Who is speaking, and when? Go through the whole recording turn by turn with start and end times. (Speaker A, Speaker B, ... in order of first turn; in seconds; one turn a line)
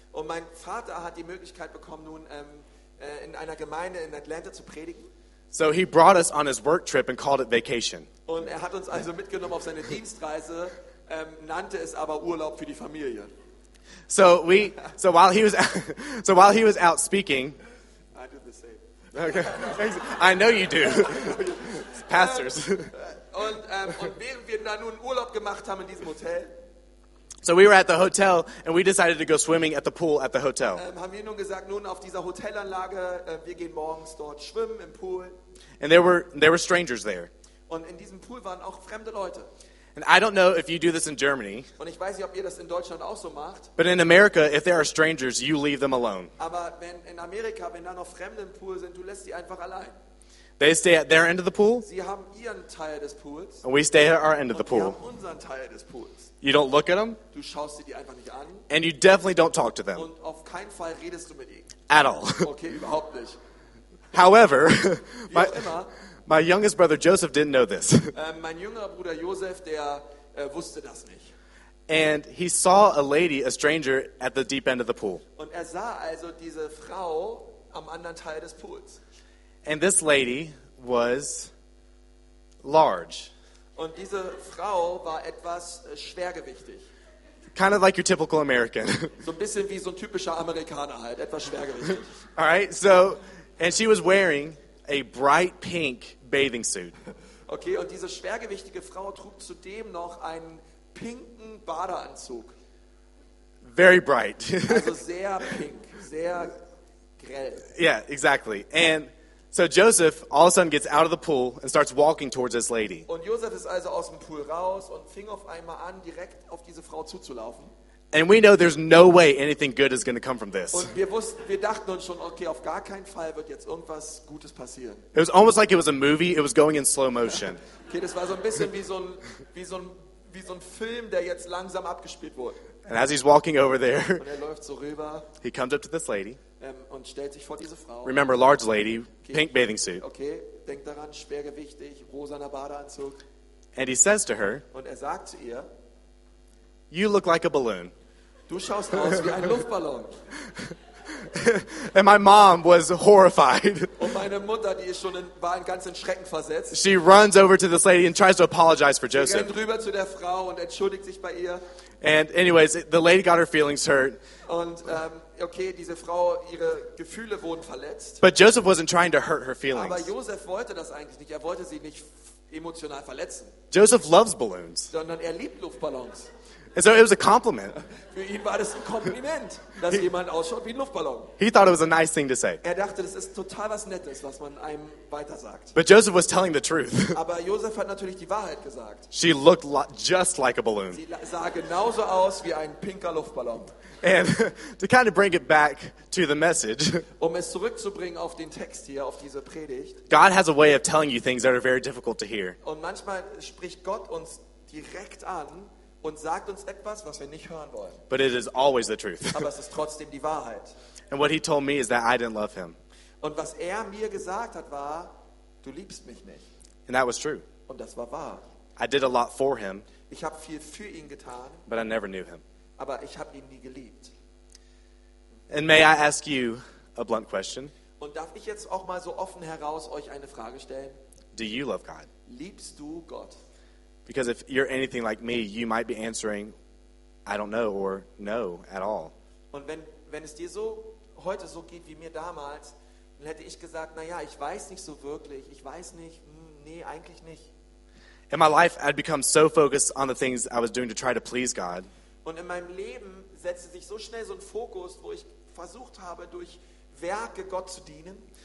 Speaker A: 0.1-5.1
Speaker B: 5.5-8.1
Speaker A: 8.3-13.3
Speaker B: 14.1-17.6
Speaker A: 18.1-26.5
Speaker B: 19.1-22.9
Speaker B: 27.4-30.8
Speaker A: 30.7-35.4
Speaker B: 35.8-37.3
Speaker A: 37.7-39.5
Speaker B: 40.0-41.7
Speaker A: 41.8-43.7
Speaker B: 43.8-46.3
Speaker A: 46.4-50.0
Speaker B: 50.6-51.9
Speaker A: 51.8-53.6
Speaker B: 53.6-55.0
Speaker A: 54.5-56.3
Speaker B: 56.4-57.2
Speaker A: 57.3-58.7
Speaker B: 58.7-60.1
Speaker A: 59.9-61.7
Speaker B: 61.9-62.5
Speaker A: 62.4-63.4
Speaker B: 64.1-65.7
Speaker A: 65.3-65.9
Speaker B: 66.3-68.1
Speaker A: 68.1-71.3
Speaker B: 71.9-75.2
Speaker A: 75.4-79.0
Speaker B: 79.6-81.5
Speaker B: 82.6-83.3
Speaker A: 83.8-86.9
Speaker B: 87.5-89.1
Speaker A: 89.2-92.1
Speaker B: 92.3-96.9
Speaker A: 97.5-102.5
Speaker B: 103.6-105.0
Speaker A: 104.7-106.6
Speaker A: 107.2-107.7
Speaker B: 107.7-113.1
Speaker A: 113.1-117.7
Speaker B: 118.1-120.9
Speaker A: 120.7-125.1
Speaker B: 125.1-127.6
Speaker A: 127.9-132.6
Speaker B: 132.8-134.2
Speaker A: 134.2-135.3
Speaker B: 135.4-136.4
Speaker A: 136.6-138.2
Speaker B: 138.0-140.0
Speaker A: 139.2-143.2
Speaker B: 143.8-144.6
Speaker A: 144.7-145.7
Speaker B: 146.9-147.9
Speaker A: 148.5-150.2
Speaker B: 151.1-154.1
Speaker A: 154.0-156.8
Speaker B: 156.7-159.5
Speaker A: 159.1-161.6
Speaker B: 162.0-164.2
Speaker A: 164.4-168.2
Speaker B: 168.2-170.1
Speaker A: 169.7-173.6
Speaker B: 173.7-174.9
Speaker A: 174.9-176.3
Speaker B: 176.7-177.8
Speaker A: 177.8-181.3
Speaker B: 181.4-182.6
Speaker A: 182.6-185.8
Speaker B: 185.7-187.2
Speaker A: 187.1-189.1
Speaker B: 189.1-191.0
Speaker A: 190.9-193.7
Speaker B: 194.0-197.1
Speaker A: 197.2-200.0
Speaker B: 200.1-202.6
Speaker A: 202.6-208.0
Speaker B: 208.1-209.5
Speaker A: 209.3-210.7
Speaker B: 211.1-212.8
Speaker A: 213.2-215.1
Speaker A: 215.6-216.4
Speaker B: 216.9-217.4
Speaker A: 217.7-218.4
Speaker B: 218.8-219.9
Speaker A: 220.1-221.6
Speaker B: 221.7-222.4
Speaker A: 222.8-224.1
Speaker B: 225.5-227.7
Speaker A: 228.0-231.0
Speaker B: 231.3-232.1
Speaker A: 232.3-233.4
Speaker B: 234.1-236.5
Speaker B: 237.2-239.1
Speaker A: 239.5-247.5
Speaker B: 248.3-251.9
Speaker A: 252.2-258.2